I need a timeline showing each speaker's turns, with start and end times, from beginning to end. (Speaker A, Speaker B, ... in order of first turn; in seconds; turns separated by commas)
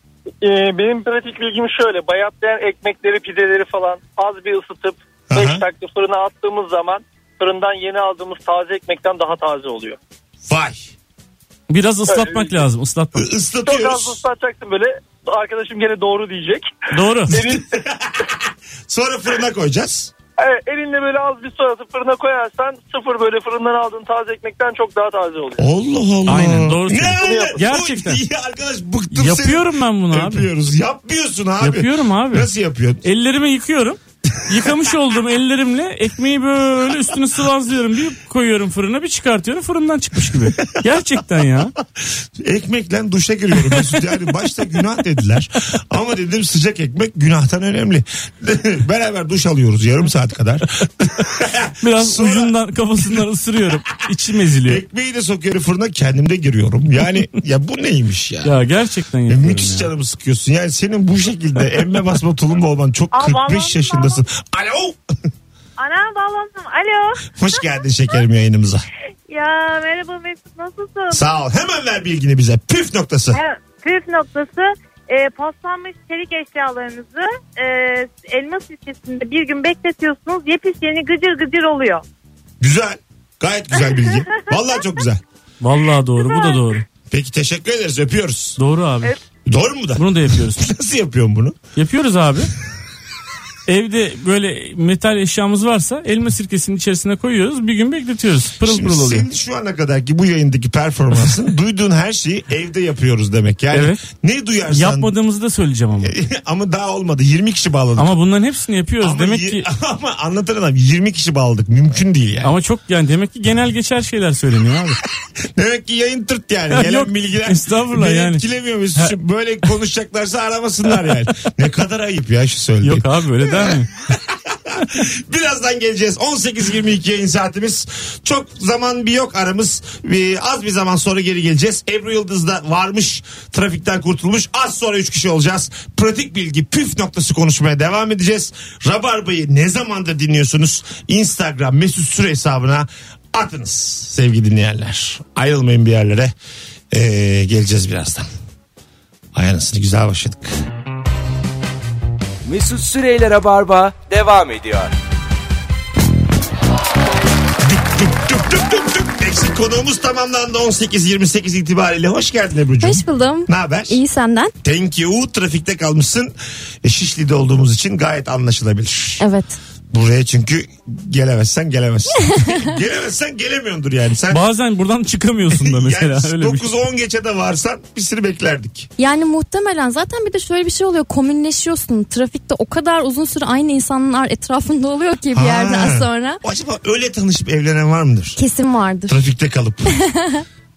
Speaker A: 0.4-10.0, Speaker B: 5.3-5.6, Speaker B: 10.4-10.9, Speaker C: 11.7-13.2, Speaker A: 12.1-12.6, Speaker B: 13.2-14.2, Speaker A: 13.6-16.7, Speaker C: 16.9-17.4, Speaker A: 17.3-17.6, Speaker B: 17.3-20.1, Speaker A: 20.4-25.7, Speaker B: 25.6-33.0, Speaker C: 26.2-28.2, Speaker A: 27.2-27.6, Speaker C: 29.1-30.5, Speaker C: 31.6-32.5, Speaker C: 33.0-41.7, Speaker B: 42.4-52.5, Speaker C: 43.7-44.0, Speaker C: 51.8-54.8, Speaker B: 54.6-58.6, Speaker C: 58.4-59.9, Speaker B: 59.3-65.0, Speaker D: 63.1-64.2, Speaker D: 65.8-67.7, Speaker B: 67.3-68.8, Speaker D: 69.3-71.2, Speaker B: 71.1-73.4, Speaker D: 73.3-82.0, Speaker B: 82.6-85.2, Speaker C: 85.6-86.8, Speaker D: 86.3-86.6, Speaker B: 87.1-88.6, Speaker C: 88.6-89.2, Speaker B: 89.5-91.6, Speaker C: 90.0-90.7, Speaker C: 91.8-92.5, Speaker C: 93.7-99.2, Speaker B: 98.6-105.1, Speaker C: 103.7-104.0, Speaker C: 104.7-106.1, Speaker B: 106.0-108.1, Speaker C: 108.0-109.7, Speaker B: 109.0-112.5, Speaker C: 112.4-115.0, Speaker B: 115.5-146.3, Speaker C: 116.7-118.4, Speaker C: 122.8-123.9, Speaker B: 146.9-148.3, Speaker B: 149.3-150.5, Speaker E: 152.4-154.9, Speaker B: 157.6-164.0, Speaker F: 162.8-164.5, Speaker B: 164.6-169.2, Speaker F: 169.2-169.6, Speaker B: 169.9-174.4, Speaker F: 172.3-172.6, Speaker C: 174.3-176.7, Speaker B: 175.5-178.9, Speaker F: 179.0-186.4, Speaker B: 185.3-188.4, Speaker F: 188.4-189.2, Speaker B: 189.1-189.9, Speaker F: 189.9-190.4